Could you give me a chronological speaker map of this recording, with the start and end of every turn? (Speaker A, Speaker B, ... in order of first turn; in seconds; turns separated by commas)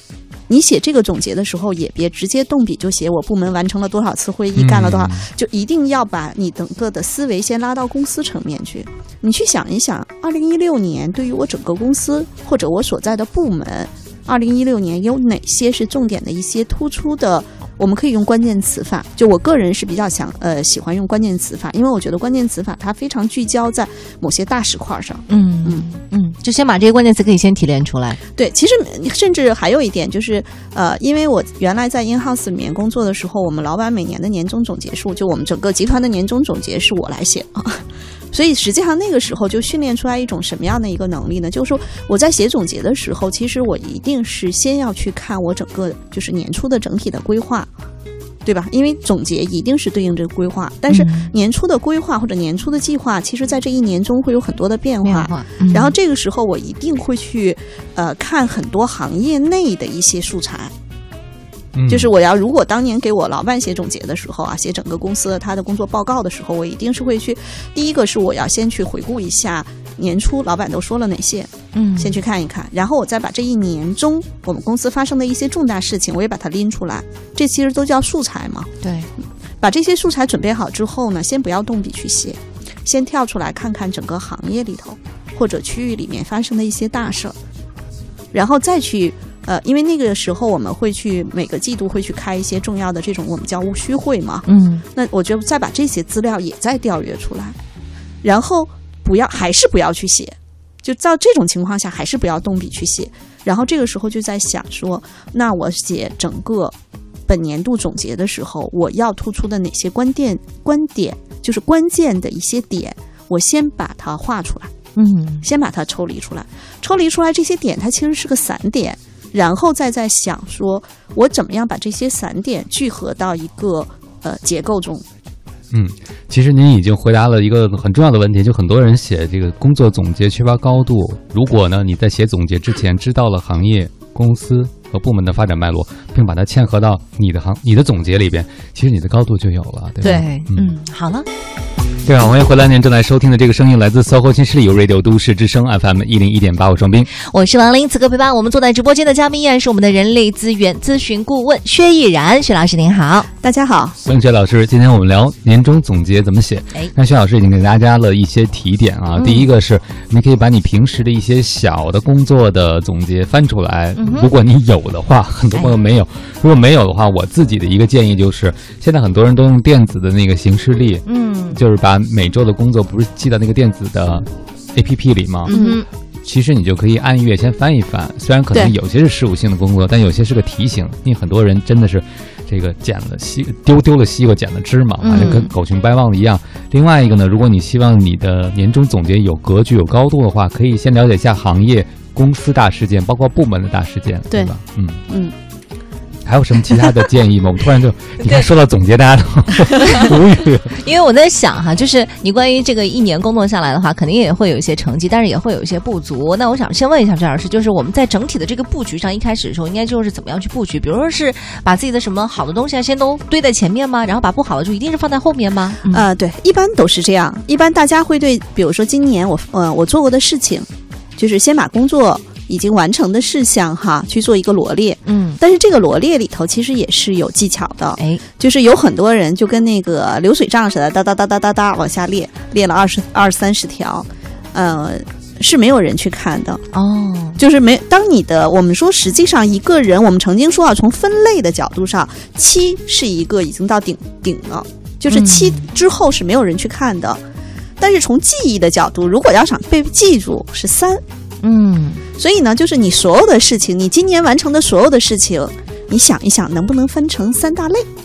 Speaker A: 0.5-25.8, Speaker B: 4.5-5.3, Speaker C: 25.3-28.2, Speaker A: 28.4-47.7, Speaker A: 48.5-60.7, Speaker C: 50.9-51.3, Speaker C: 55.0-55.9, Speaker B: 61.8-62.1, Speaker A: 62.0-78.7, Speaker C: 71.7-72.2, Speaker C: 78.8-79.1, Speaker A: 79.6-87.4, Speaker A: 88.3-97.6, Speaker C: 94.5-94.8, Speaker A: 98.2-106.8, Speaker A: 107.3-114.7, Speaker C: 115.0-115.5, Speaker A: 115.4-125.0, Speaker B: 125.7-140.7, Speaker C: 140.0-141.3, Speaker B: 142.1-147.1, Speaker C: 147.2-153.3, Speaker A: 153.4-154.0, Speaker B: 154.0-175.5, Speaker C: 159.2-159.5, Speaker C: 164.0-164.3, Speaker C: 171.1-171.6, Speaker C: 175.5-175.9, Speaker B: 176.2-195.0, Speaker C: 185.0-185.5, Speaker B: 196.2-200.8, Speaker C: 200.8-216.1, Speaker A: 215.9-236.6, Speaker C: 225.1-225.4, Speaker C: 236.7-237.4, Speaker A: 237.4-247.2, Speaker C: 245.1-245.7, Speaker A: 247.8-251.0, Speaker C: 251.4-252.0, Speaker A: 252.2-257.9